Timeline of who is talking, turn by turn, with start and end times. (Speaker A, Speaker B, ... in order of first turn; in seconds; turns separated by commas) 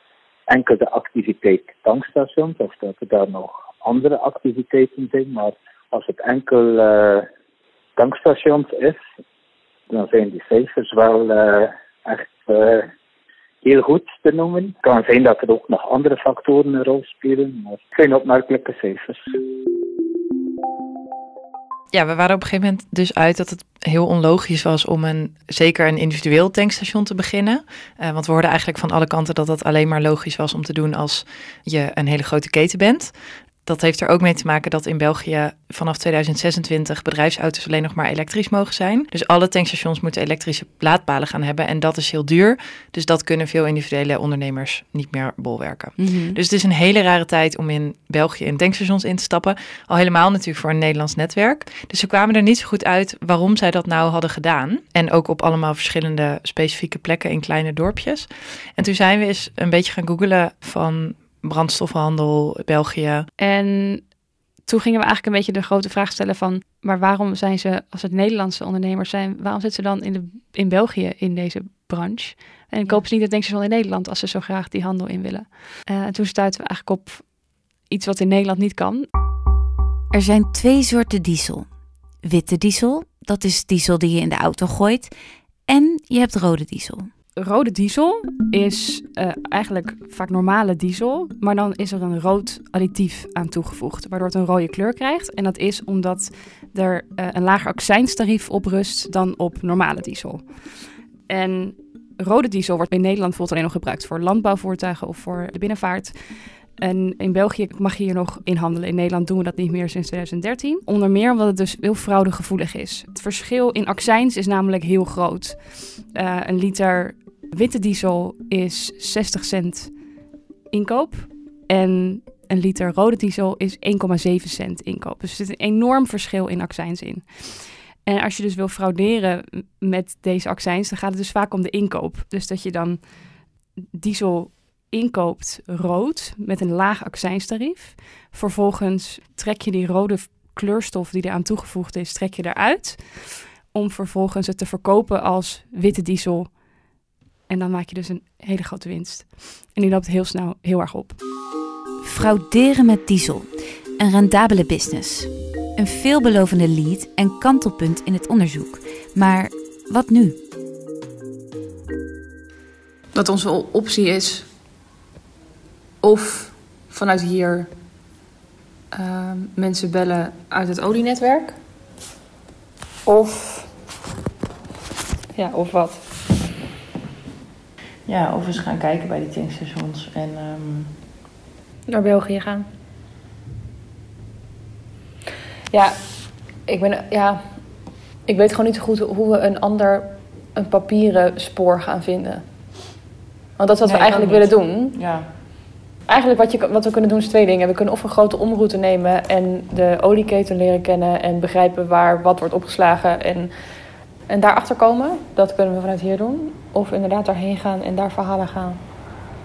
Speaker A: 0.5-7.3, Speaker A: 8.0-9.0, Speaker A: 9.9-12.9, Speaker A: 13.6-19.2, Speaker B: 21.9-33.1, Speaker B: 33.6-63.3, Speaker C: 46.0-46.3, Speaker C: 63.4-64.1, Speaker C: 64.6-77.3, Speaker C: 77.9-79.1, Speaker D: 80.1-81.7, Speaker D: 82.2-85.1, Speaker D: 85.7-87.1, Speaker C: 87.4-120.0, Speaker C: 120.7-133.2, Speaker C: 133.9-146.6, Speaker C: 147.5-151.2, Speaker D: 152.0-160.3, Speaker C: 163.1-164.5, Speaker C: 166.0-167.7, Speaker C: 168.9-171.5, Speaker C: 173.1-173.7, Speaker C: 175.3-176.0, Speaker B: 178.1-180.9, Speaker C: 181.9-182.6, Speaker C: 186.7-187.5, Speaker C: 188.2-192.4, Speaker C: 193.6-194.9, Speaker B: 193.8-195.3, Speaker C: 196.1-203.5, Speaker C: 204.3-208.8